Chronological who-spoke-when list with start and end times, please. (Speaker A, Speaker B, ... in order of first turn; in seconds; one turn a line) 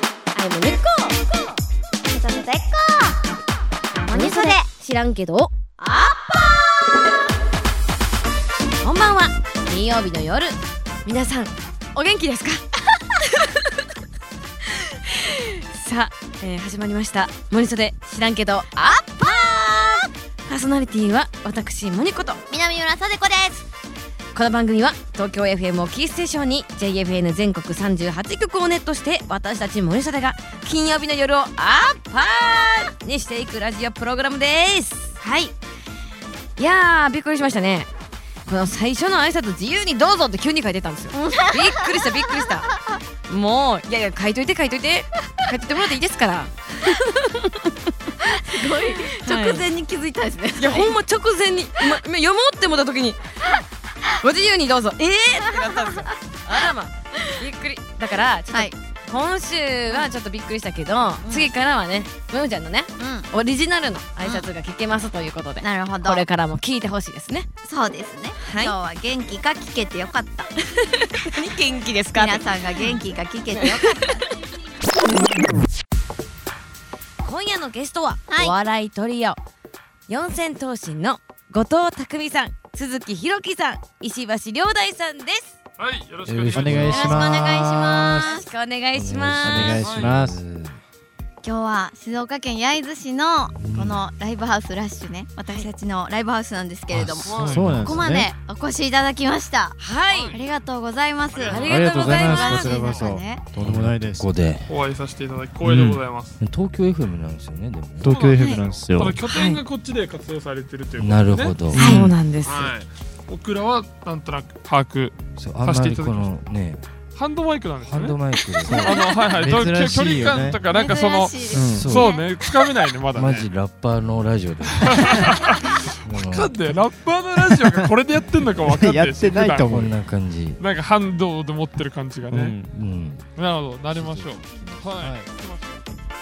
Speaker A: 0.3-1.5
Speaker B: 2.0-3.2
Speaker A: 4.0-5.5
Speaker B: 4.1-4.7
Speaker B: 5.8-7.1
Speaker A: 8.8-13.9
Speaker A: 14.7-22.4
Speaker B: 18.8-19.4
Speaker B: 22.5-23.6
Speaker A: 24.3-35.1
Speaker B: 35.2-35.5
Speaker A: 36.6-37.9
Speaker A: 38.5-42.7
Speaker B: 41.1-42.5
Speaker A: 43.3-47.7
Speaker B: 48.2-51.0
Speaker A: 48.5-49.6
Speaker A: 50.6-53.2
Speaker A: 54.2-67.5
Speaker B: 55.5-56.1
Speaker B: 61.2-61.5
Speaker B: 63.0-63.3
Speaker B: 64.2-64.5
Speaker B: 65.6-66.2
Speaker B: 67.6-70.5
Speaker A: 68.4-68.8
Speaker A: 70.7-72.9
Speaker B: 72.1-74.2
Speaker A: 73.5-74.2
Speaker A: 77.2-79.4
Speaker B: 78.3-78.6
Speaker A: 80.1-85.5
Speaker C: 85.8-87.1
Speaker D: 86.2-87.2
Speaker E: 86.5-88.3
Speaker B: 86.9-88.5
Speaker A: 87.0-89.8
Speaker D: 88.9-90.8
Speaker E: 89.4-90.4
Speaker C: 89.7-90.2
Speaker B: 91.4-99.8
Speaker D: 93.6-94.0
Speaker D: 96.9-98.2
Speaker C: 97.2-97.8
Speaker E: 97.4-98.3
Speaker A: 99.8-100.4
Speaker C: 100.1-100.4
Speaker B: 100.3-103.5
Speaker C: 101.3-103.2
Speaker A: 101.5-102.8
Speaker E: 101.6-104.3
Speaker D: 103.6-104.7
Speaker C: 104.7-106.4
Speaker D: 105.6-108.3
Speaker E: 108.0-109.2
Speaker C: 108.0-116.3
Speaker B: 108.3-108.6
Speaker A: 109.3-109.6
Speaker D: 111.0-112.1
Speaker A: 111.7-112.7
Speaker E: 111.8-112.0
Speaker B: 111.8-112.1
Speaker D: 115.4-116.8
Speaker C: 117.1-123.5
Speaker D: 117.8-119.1
Speaker E: 118.7-120.6
Speaker B: 120.7-122.3
Speaker E: 121.5-121.9
Speaker D: 121.7-122.1
Speaker D: 123.2-125.5
Speaker C: 124.8-130.0
Speaker D: 126.0-126.6
Speaker E: 128.7-129.9
Speaker D: 129.4-130.6
Speaker C: 130.6-132.6
Speaker D: 132.3-133.3
Speaker C: 133.4-135.8
Speaker D: 133.9-134.9